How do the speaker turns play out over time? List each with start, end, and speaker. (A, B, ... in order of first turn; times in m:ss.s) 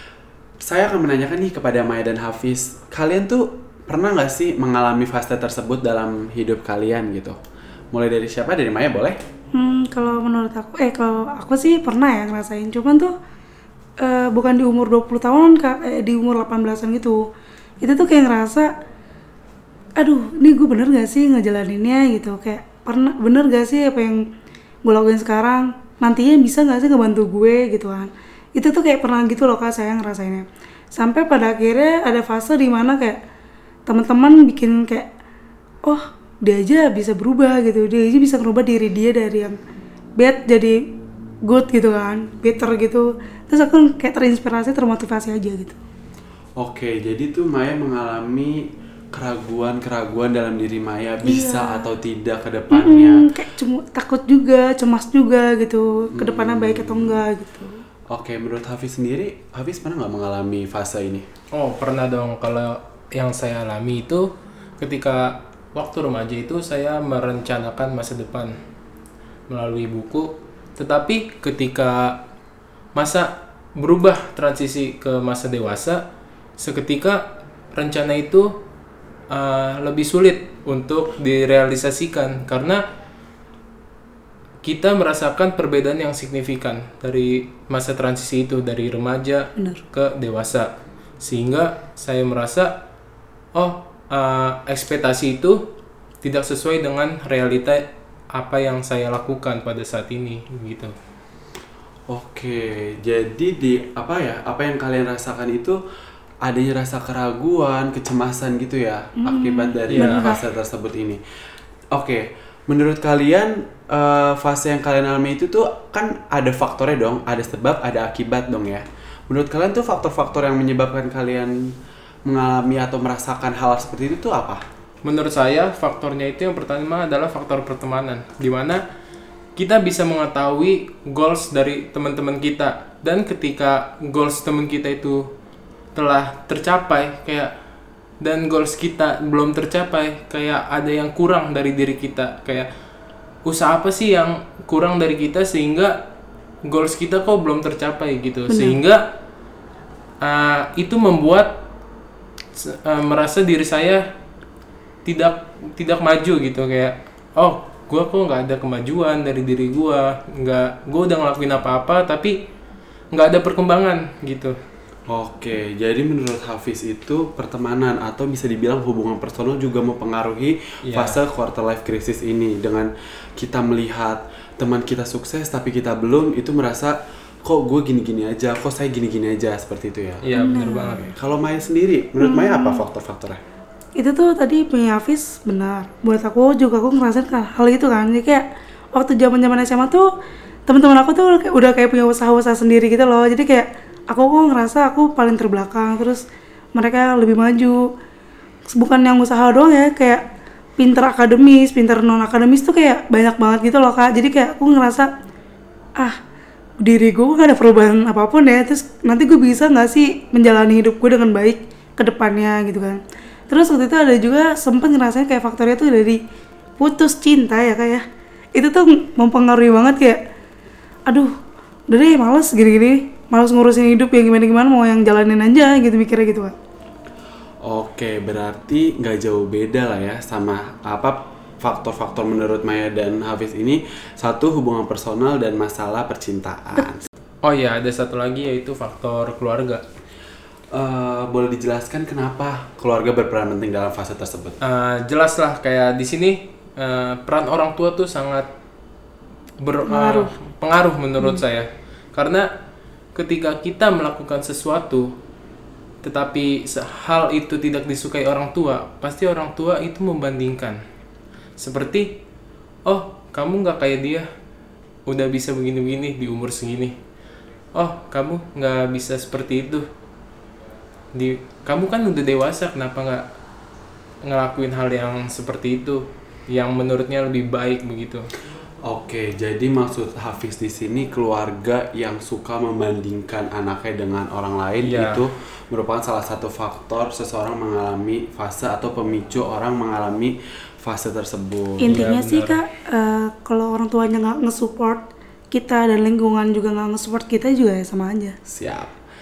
0:00.6-0:07.4 A
0:07.9-0:09.2 A
0:09.5-0:13.1 B
0:14.0-0:17.2 B
0:17.8-0:18.7 B
0:20.0-0:24.2 B
0:24.8-0:33.2 B
0:33.9-0:35.1 B
0:35.8-0:39.6 B
0:40.2-0:40.8 B
0:41.5-0:45.8 B
0:46.6-0:53.3 A
0:51.2-0:51.8 B
0:52.7-0:57.8 B
0:56.1-0:57.2 A
0:58.1-1:01.2 A
1:01.5-1:04.3 C
1:04.8-1:08.5 C
1:09.5-1:12.2 C
1:12.9-1:16.0 C
1:16.6-1:18.5 C
1:19.3-1:22.8 C
1:24.6-1:32.8 C
1:29.6-1:29.8 B
1:33.5-1:35.7 C
1:36.2-1:40.9 C
1:42.1-1:45.8 A
1:46.4-1:51.2 A
1:49.2-1:50.4 B
1:49.9-1:50.4 C
1:51.9-2:01.7 A
2:02.2-2:04.6 A
2:05.0-2:08.8 C
2:09.6-2:15.3 C
2:15.9-2:17.5 C
2:18.2-2:22.7 C
2:23.4-2:26.0 C
2:26.6-2:29.0 C
2:28.5-2:28.8 B
2:30.2-2:31.6 C
2:32.6-2:34.0 C
2:35.0-2:42.4 C
2:43.1-2:44.6 C
2:45.1-3:00.2 A
2:50.8-2:51.2 C
3:00.2-3:01.1 C
3:00.3-3:01.1 B
3:01.1-3:03.4 A
3:02.2-3:02.8 B
3:04.0-3:10.0 B
3:10.7-3:16.2 B
3:16.8-3:17.8 B
3:18.7-3:20.2 B
3:20.8-3:25.1 B
3:26.8-3:33.0 B
3:33.5-3:36.2 B
3:36.8-3:38.0 B
3:38.6-3:40.2 B
3:41.9-3:46.5 B
3:47.6-3:57.0 A
3:57.4-3:59.8 C
4:00.7-4:04.6 A
4:04.6-4:08.5 C
4:09.6-4:12.5 C
4:09.8-4:10.3 B
4:13.1-4:15.1 C
4:16.0-4:20.8 C
4:21.6-4:22.2 C
4:22.8-4:24.2 C
4:25.1-4:27.0 C
4:27.7-4:29.9 C
4:31.1-4:33.2 C
4:34.2-4:38.2 C
4:38.9-4:52.0 A
4:44.8-4:45.2 C
4:51.8-4:58.4 B
4:51.8-4:52.6 C
4:58.5-4:58.9 A